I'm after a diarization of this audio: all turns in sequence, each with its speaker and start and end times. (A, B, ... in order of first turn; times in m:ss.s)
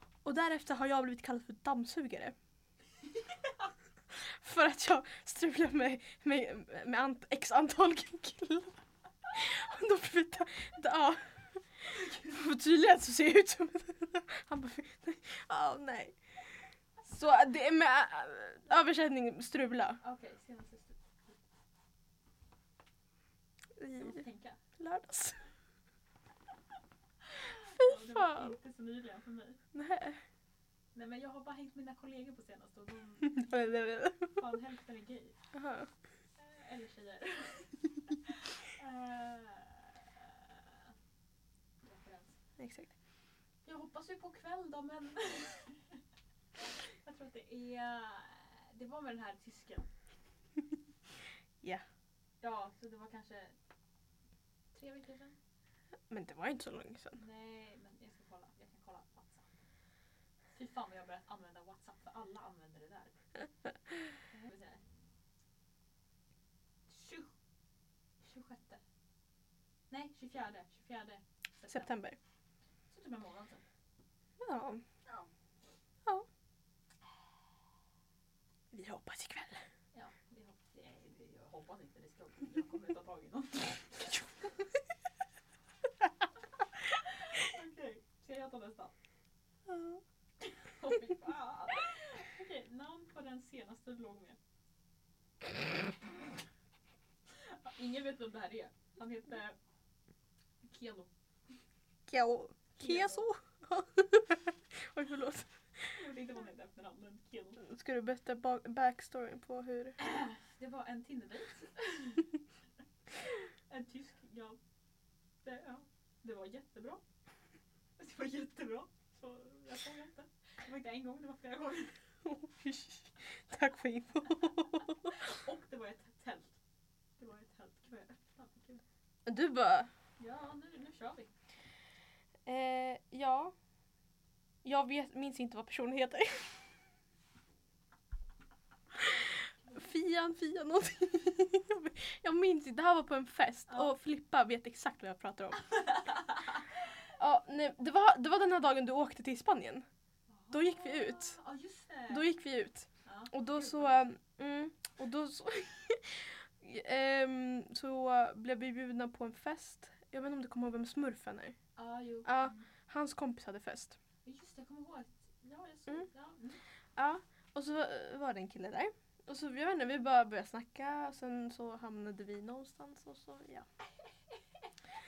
0:00.2-0:02.4 A
0:04.1-0:16.2 A
0:17.0-0:20.0 A
0:20.0-0:21.4 B
0:23.8-0:24.2 A
0:24.0-0:24.6 B
0:24.8-0:25.5 A
0:27.3-0:29.6 B
0:27.7-0:28.6 A
0:29.7-0:30.2 A
0:30.9-0:33.5 B
0:33.2-0:34.4 A
0:34.4-0:35.4 B
0:35.5-0:35.9 A
0:36.4-0:40.9 B
0:41.8-0:42.4 B
0:42.6-0:42.9 A
0:43.6-0:46.0 B
0:46.6-0:49.9 B
0:52.4-0:53.6 B
0:54.7-0:55.4 B
0:56.1-0:57.2 A
0:57.2-0:59.5 B
1:00.5-1:03.1 B
1:04.3-1:04.8 B
1:06.9-1:07.3 B
1:08.2-1:08.8 B
1:09.9-1:12.0 B
1:11.7-1:12.2 A
1:12.9-1:13.6 B
1:14.4-1:14.8 A
1:18.7-1:19.6 A
1:19.9-1:24.3 B
1:26.8-1:28.9 B
1:29.7-1:30.0 A
1:30.4-1:34.4 B
1:37.4-1:39.6 B
1:40.6-1:41.1 B
1:42.1-1:46.0 A
1:42.8-1:43.3 B
1:45.9-1:47.6 B
1:47.6-1:50.0 A
1:50.0-1:52.3 B
1:53.2-1:54.6 B
1:55.4-1:57.0 B
1:58.0-2:02.0 B
2:02.2-2:05.2 A
2:05.1-2:06.6 B
2:07.2-2:08.8 B
2:09.3-2:09.9 A
2:10.2-2:11.3 B
2:12.5-2:13.5 A
2:14.6-2:16.6 A
2:19.7-2:25.6 A
2:23.7-2:24.0 B
2:25.6-2:26.6 B
2:27.2-2:29.8 A
2:30.3-2:32.3 B
2:30.5-2:31.4 A
2:32.1-2:41.6 A
2:33.0-2:34.0 B
2:41.8-2:42.7 B
2:42.2-2:44.0 A
2:44.2-2:46.6 B
2:47.0-2:53.7 A